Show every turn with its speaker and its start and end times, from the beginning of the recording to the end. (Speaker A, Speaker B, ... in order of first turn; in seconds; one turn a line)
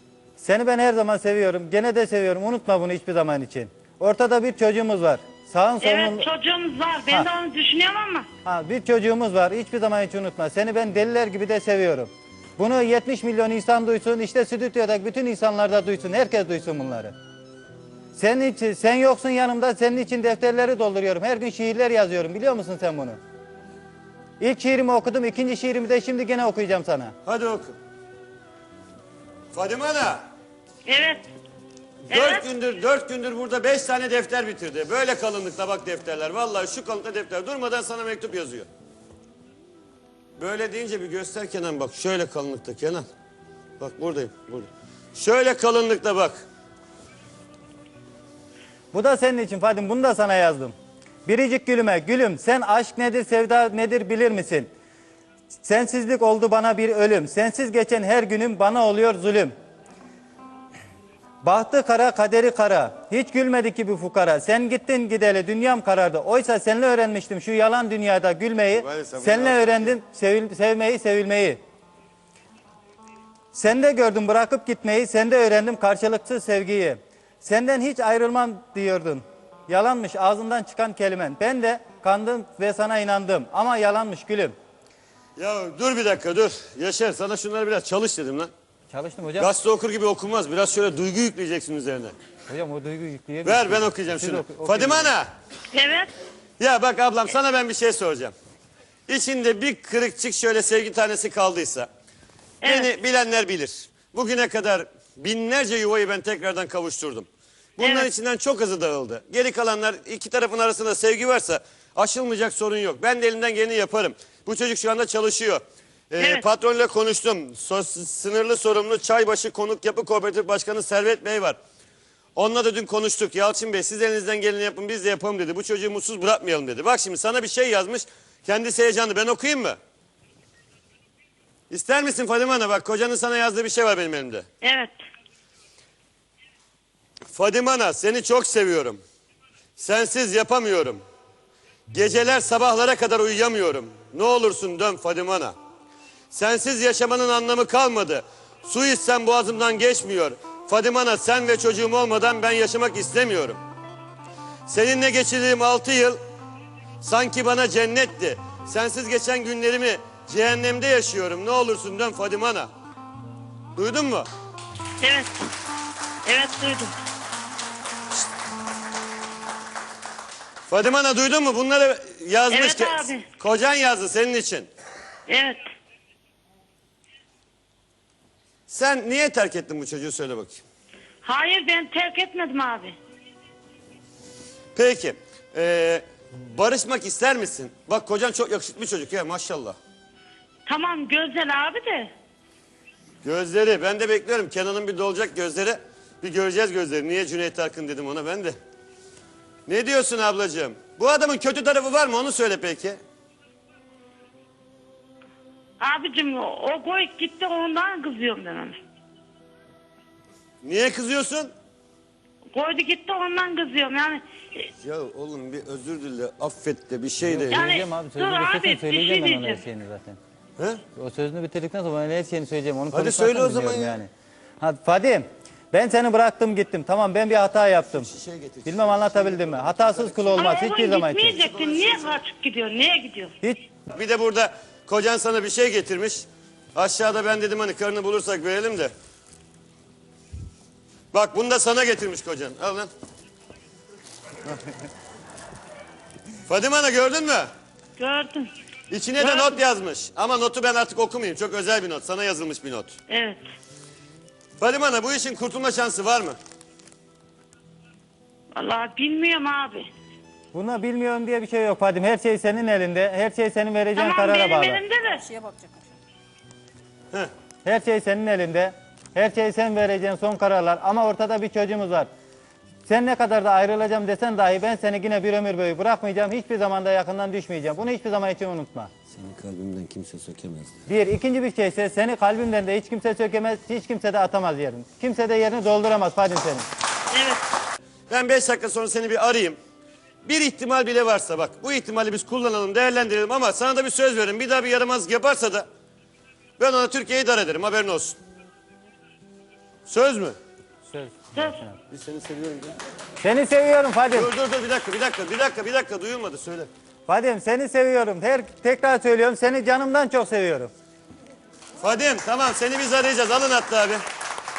Speaker A: 0.4-6.3
Speaker B: 5.8-8.3
Speaker A: 8.4-17.1
Speaker A: 18.1-23.2
Speaker A: 24.4-27.1
Speaker C: 27.2-27.8
Speaker C: 29.5-30.2
Speaker B: 30.9-31.3
Speaker B: 32.1-32.4
Speaker C: 32.1-38.7
Speaker C: 40.4-43.0
Speaker C: 43.8-46.4
Speaker A: 48.9-50.7
Speaker A: 51.2-54.7
Speaker A: 55.6-59.5
Speaker A: 61.4-71.6
Speaker C: 68.7-69.9
Speaker A: 73.5-84.5
Speaker C: 85.3-88.5
Speaker A: 88.9-89.5
Speaker C: 89.4-92.1
Speaker A: 92.5-95.2
Speaker C: 93.4-95.3
Speaker B: 95.7-96.1
Speaker C: 96.6-98.3
Speaker C: 99.1-101.9
Speaker B: 102.6-102.9
Speaker C: 102.6-121.6
Speaker B: 107.8-108.1
Speaker B: 116.2-116.4
Speaker C: 122.3-129.8
Speaker C: 131.7-134.4
Speaker B: 134.6-134.9
Speaker C: 137.3-139.0
Speaker C: 139.8-141.0
Speaker C: 141.9-145.6
Speaker C: 146.3-153.6
Speaker C: 154.7-156.2
Speaker C: 157.0-162.7
Speaker C: 163.7-164.3
Speaker B: 165.0-165.5
Speaker B: 166.2-166.9
Speaker C: 170.7-174.7
Speaker B: 172.5-173.2
Speaker B: 175.3-175.6
Speaker C: 178.7-180.6
Speaker B: 181.2-182.9
Speaker C: 184.7-189.8
Speaker B: 190.7-192.1
Speaker C: 193.2-198.5
Speaker C: 199.7-203.0
Speaker B: 205.8-208.8
Speaker C: 210.6-211.5
Speaker B: 212.5-214.7
Speaker C: 214.8-217.7
Speaker A: 217.2-220.2
Speaker B: 217.5-219.6
Speaker C: 220.6-220.8
Speaker A: 220.9-228.1
Speaker C: 222.9-224.0
Speaker C: 227.9-230.7
Speaker A: 228.7-231.4
Speaker B: 230.3-233.3
Speaker C: 231.2-232.2
Speaker C: 233.9-238.9
Speaker C: 241.1-242.9
Speaker C: 246.5-247.5
Speaker B: 248.0-248.5
Speaker C: 248.9-252.9
Speaker B: 249.2-249.6
Speaker B: 253.1-253.4
Speaker C: 254.6-256.4
Speaker B: 258.5-259.9
Speaker A: 260.5-264.8
Speaker B: 263.9-265.7
Speaker A: 267.6-272.1
Speaker A: 272.9-278.9
Speaker C: 279.1-280.7
Speaker A: 280.9-286.7
Speaker B: 287.1-287.4
Speaker C: 288.1-289.6
Speaker C: 290.2-295.7
Speaker C: 296.6-298.2
Speaker C: 299.9-300.4
Speaker A: 300.9-301.8
Speaker B: 301.3-301.6
Speaker C: 301.9-302.8
Speaker A: 303.2-304.3
Speaker C: 304.1-306.7
Speaker A: 307.1-310.7
Speaker C: 311.8-314.0